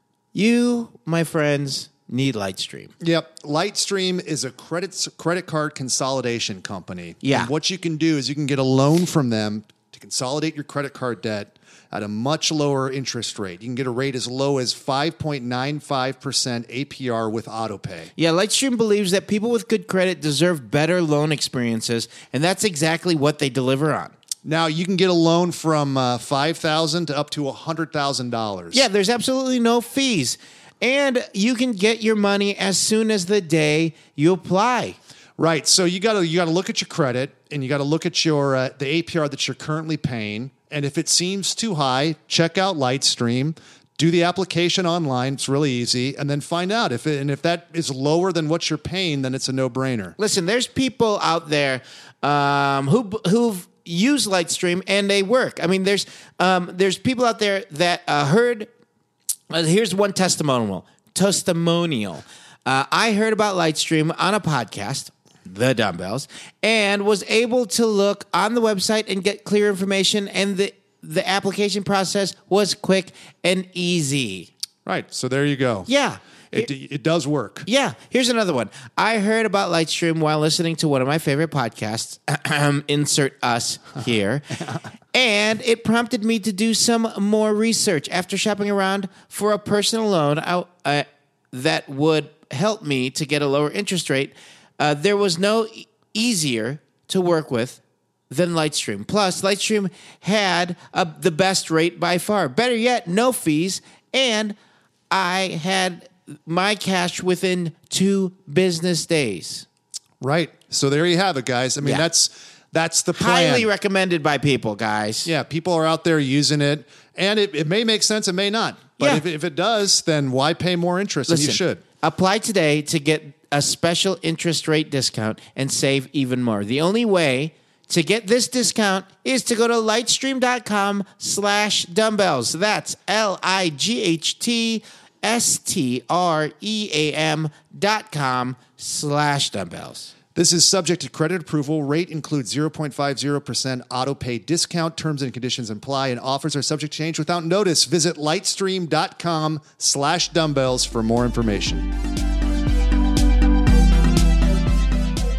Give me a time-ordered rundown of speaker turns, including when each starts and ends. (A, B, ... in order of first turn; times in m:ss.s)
0:00.3-0:02.9 A
0:03.0-0:18.1 B
0:07.2-0:07.5 A
0:18.2-0:24.1 A
0:24.4-0:28.8 B
0:28.7-0:35.0 A
0:35.4-0:50.1 B
0:50.2-0:58.7 A
0:59.5-1:14.5 A
1:14.8-1:15.9 B
1:15.9-1:16.7 A
1:16.5-1:17.6 B
1:17.6-1:24.4 A
1:25.1-1:44.5 A
1:45.1-1:49.6 A
1:50.2-1:53.7 B
1:53.1-1:55.3 A
1:55.2-2:01.8 B
1:59.0-1:59.2 A
2:01.3-2:20.1 A
2:20.3-2:31.9 B